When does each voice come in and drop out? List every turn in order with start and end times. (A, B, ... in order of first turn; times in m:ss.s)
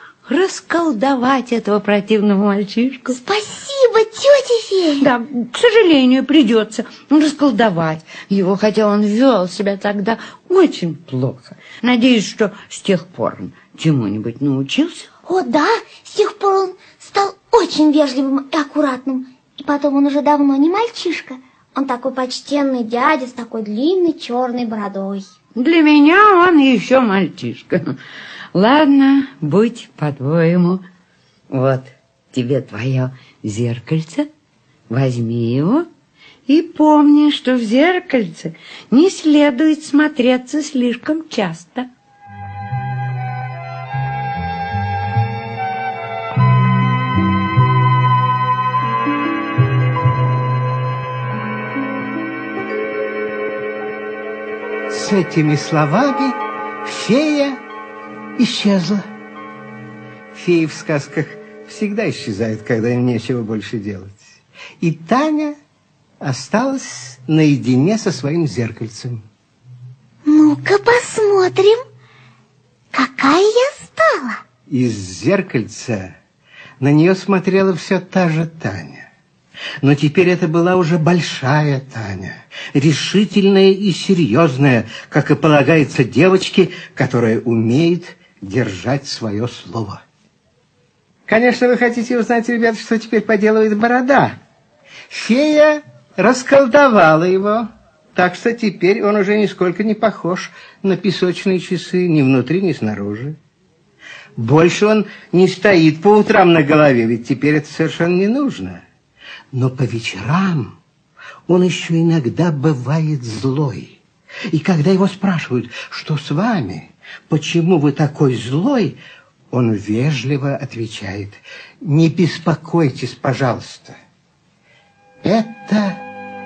0:00.3-0:03.2 A
0:03.1-0:05.1 B
0:05.0-0:15.1 A
0:15.2-0:25.2 B
0:25.6-0:28.0 A
0:28.5-0:30.8 A
0:31.5-0:34.3 A
0:34.9-0:35.9 A
0:36.5-0:41.9 A
0:54.9-0:57.6 C
0:58.4-0:59.1 C
1:00.3-1:05.6 C
1:06.2-1:09.2 C
1:10.2-1:11.8 B
1:12.9-1:14.4 B
1:14.7-1:16.1 C
1:16.8-1:19.1 C
1:19.8-1:30.0 C
1:31.3-1:34.4 C
1:35.1-1:43.4 C
1:44.4-1:48.8 C
1:49.5-1:50.8 C
1:51.5-1:59.0 C
1:59.5-2:04.0 C
2:05.2-2:06.0 C